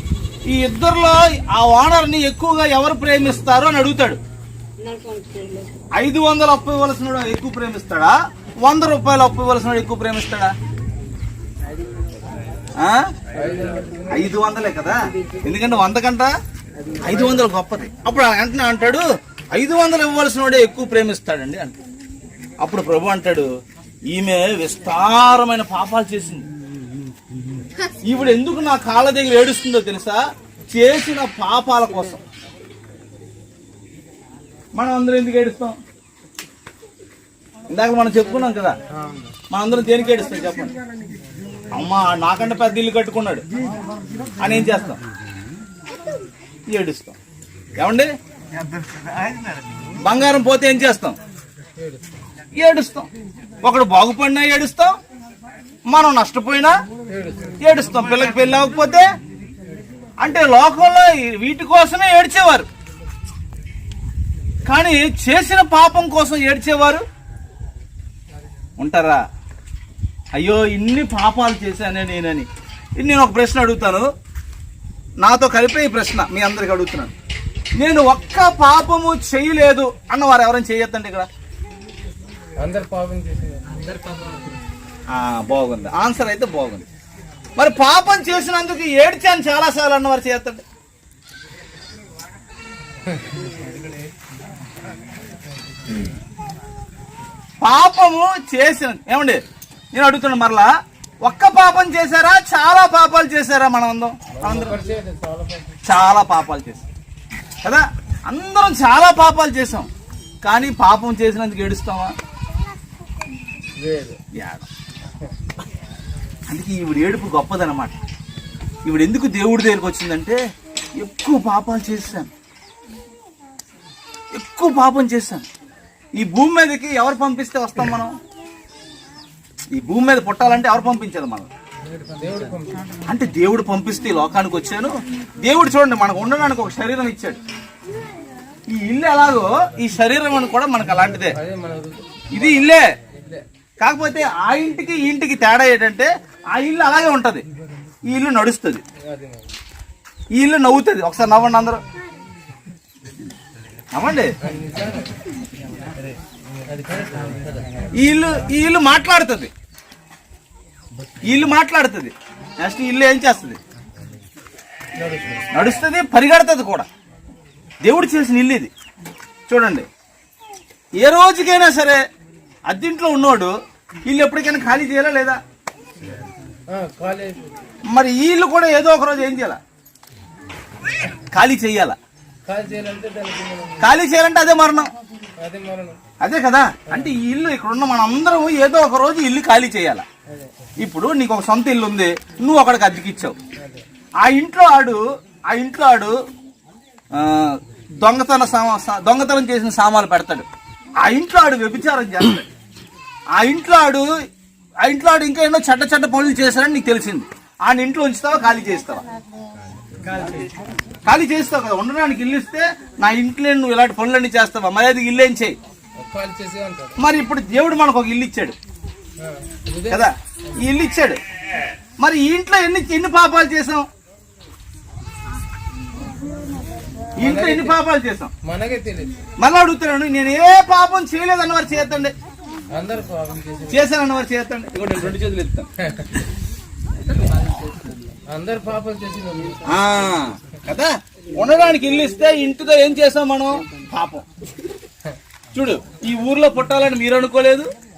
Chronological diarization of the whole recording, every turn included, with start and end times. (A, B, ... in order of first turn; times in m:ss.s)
0:00.4-0:04.2 A
0:06.0-0:10.5 A
0:12.8-0:13.0 A
0:13.4-0:14.1 B
0:14.1-0:16.3 A
0:17.0-0:21.8 A
0:22.6-0:23.5 A
0:24.1-0:26.4 A
0:28.0-0:32.2 A
0:34.7-0:35.8 A
0:37.7-0:38.8 A
0:39.5-0:40.7 A
0:41.7-0:43.4 A
0:44.4-0:45.0 A
0:46.7-0:47.2 A
0:47.8-0:48.1 A
0:50.0-0:51.2 A
0:52.6-0:53.1 A
0:53.6-0:54.9 A
0:55.9-0:56.8 A
0:57.1-0:57.5 B
0:57.6-0:59.0 A
1:00.2-1:02.7 A
1:04.6-1:07.0 A
1:08.8-1:09.2 A
1:10.3-1:12.5 A
1:13.0-1:14.0 A
1:15.2-1:17.1 A
1:17.8-1:21.3 A
1:22.6-1:24.0 B
1:25.1-1:26.8 A
1:27.6-1:30.6 A
1:37.6-1:39.4 A
1:39.9-1:40.7 A
1:41.2-1:44.8 A
1:44.4-1:45.7 B
1:45.8-1:46.8 A
1:47.6-1:49.9 A
1:50.4-1:52.1 A
1:53.8-1:54.2 B
1:54.3-1:54.6 A
1:56.5-1:58.0 A
1:58.8-2:00.4 A
2:01.0-2:02.3 A
2:04.3-2:05.4 A
2:06.1-2:08.1 A
2:09.7-2:11.5 A
2:11.9-2:12.8 B
2:13.1-2:17.4 A
2:18.7-2:21.4 A
2:21.3-2:22.5 B
2:22.3-2:22.8 A
2:23.1-2:23.4 B
2:23.8-2:27.4 A
2:28.0-2:28.8 A
2:29.1-2:29.4 B
2:30.3-2:31.8 A
2:33.9-2:34.3 A
2:34.4-2:35.1 B
2:35.9-2:37.9 B
2:37.9-2:39.5 A
2:41.2-2:43.6 A
2:45.0-2:45.4 B
2:45.5-2:46.9 A
2:47.8-2:48.7 A
2:49.5-2:49.9 A
2:51.0-2:52.0 A
2:52.7-2:53.5 A
2:54.0-2:55.4 A
2:56.7-2:57.4 B
2:57.9-2:59.6 A
3:01.3-3:02.0 A
3:02.4-3:03.9 B
3:03.8-3:04.9 A
3:05.4-3:06.0 B
3:06.2-3:10.0 A
3:10.8-3:13.4 A
3:14.2-3:16.1 A
3:17.1-3:20.4 A
3:21.0-3:22.5 A
3:23.3-3:24.1 A
3:24.8-3:29.0 A
3:31.0-3:35.6 A
3:36.0-3:36.9 B
3:37.0-3:38.6 A
3:39.2-3:40.1 B
3:39.9-3:41.2 A
3:42.0-3:43.9 A
3:47.2-3:48.3 A
3:47.2-3:47.8 B
3:48.4-3:49.1 B
3:49.4-3:52.1 A
3:52.7-3:53.8 B
3:53.7-3:55.7 A
3:58.3-3:59.6 B
3:59.7-4:04.2 A
4:05.5-4:07.7 A